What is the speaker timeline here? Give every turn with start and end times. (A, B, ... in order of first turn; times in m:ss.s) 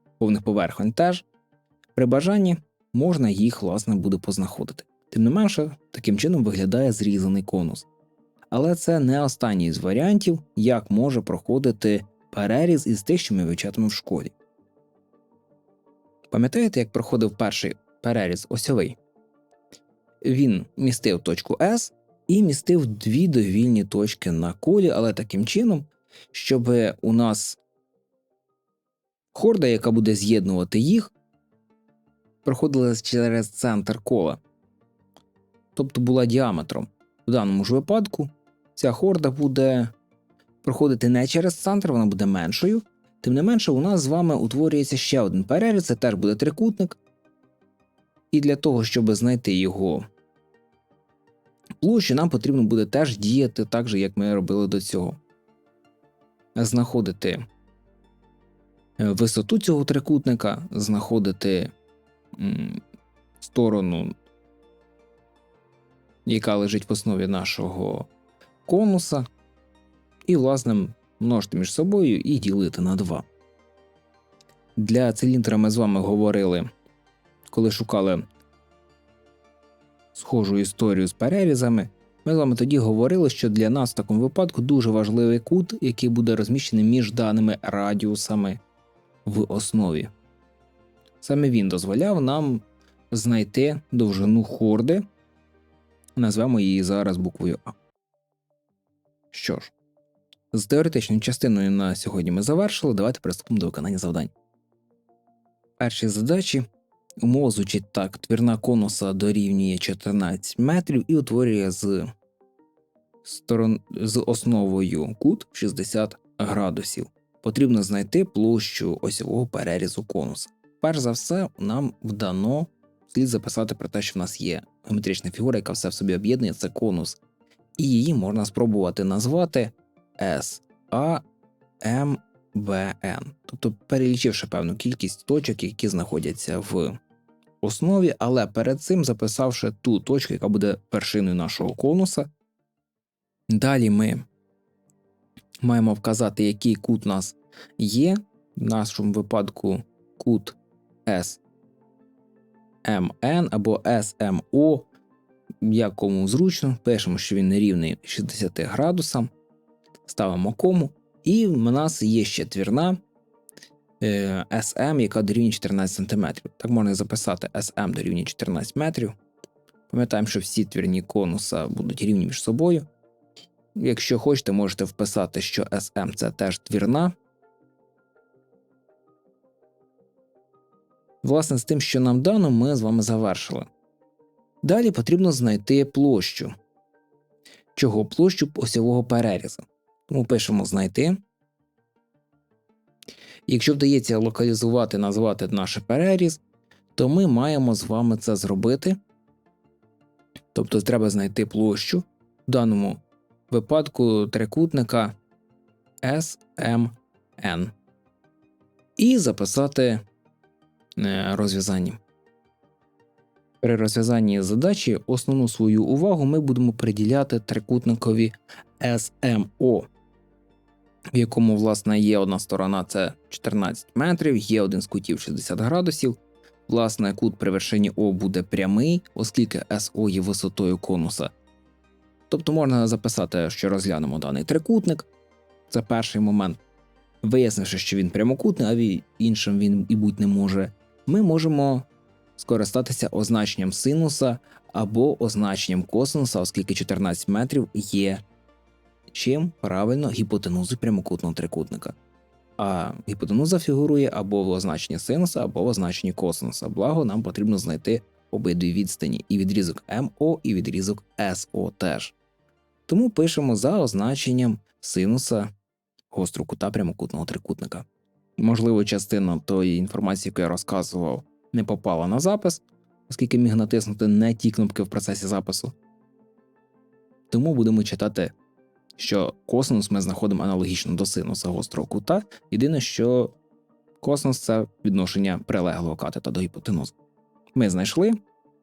0:00.2-0:01.2 A
0:02.0-0:07.9 A
0:08.5-0:14.3 A
0:16.3-0:19.0 A
0:20.2-0:27.6 A
0:29.3-0:31.1 A
0:32.4-0:34.4 A
0:35.7-0:39.9 A
0:40.6-0:47.0 A
0:48.3-0:50.0 A
0:51.8-0:55.2 A
0:56.6-0:57.4 A
0:59.0-1:01.7 A
1:02.4-1:02.8 A
1:03.4-1:04.1 A
1:06.2-1:08.1 A
1:08.6-1:09.3 A
1:10.3-1:13.2 A
1:14.8-1:16.7 A
1:17.5-1:18.2 A
1:20.1-1:28.6 A
1:29.2-1:30.1 A
1:31.2-1:35.0 A
1:36.2-1:37.7 A
1:39.3-1:39.7 A
1:40.5-1:44.3 A
1:45.8-1:46.6 A
1:47.2-1:52.1 A
1:53.2-2:07.2 A
2:07.8-2:11.2 A
2:11.8-2:17.0 A
2:17.6-2:22.3 A
2:23.5-2:24.3 A
2:25.6-2:31.4 A
2:32.8-2:34.9 A
2:35.6-2:39.3 A
2:40.0-2:43.0 A
2:44.0-2:49.1 A
2:49.9-2:52.9 A
2:53.8-2:57.1 A
3:01.2-3:03.7 A
3:04.6-3:06.5 A
3:07.7-3:11.2 A
3:13.5-3:16.4 A
3:17.0-3:19.0 A
3:20.5-3:25.1 A
3:26.0-3:27.7 A
3:29.0-3:30.0 A
3:31.0-3:32.0 A
3:33.6-3:39.9 A
3:41.1-3:51.3 A
3:52.3-3:55.1 A
3:55.7-3:56.6 A
3:57.2-4:08.2 A
4:09.1-4:12.0 A
4:12.6-4:22.2 A
4:22.9-4:25.5 A
4:26.1-4:27.9 A
4:28.4-4:35.7 A
4:37.3-4:38.3 A
4:39.0-4:43.3 A
4:44.0-4:46.9 A
4:47.5-4:48.2 A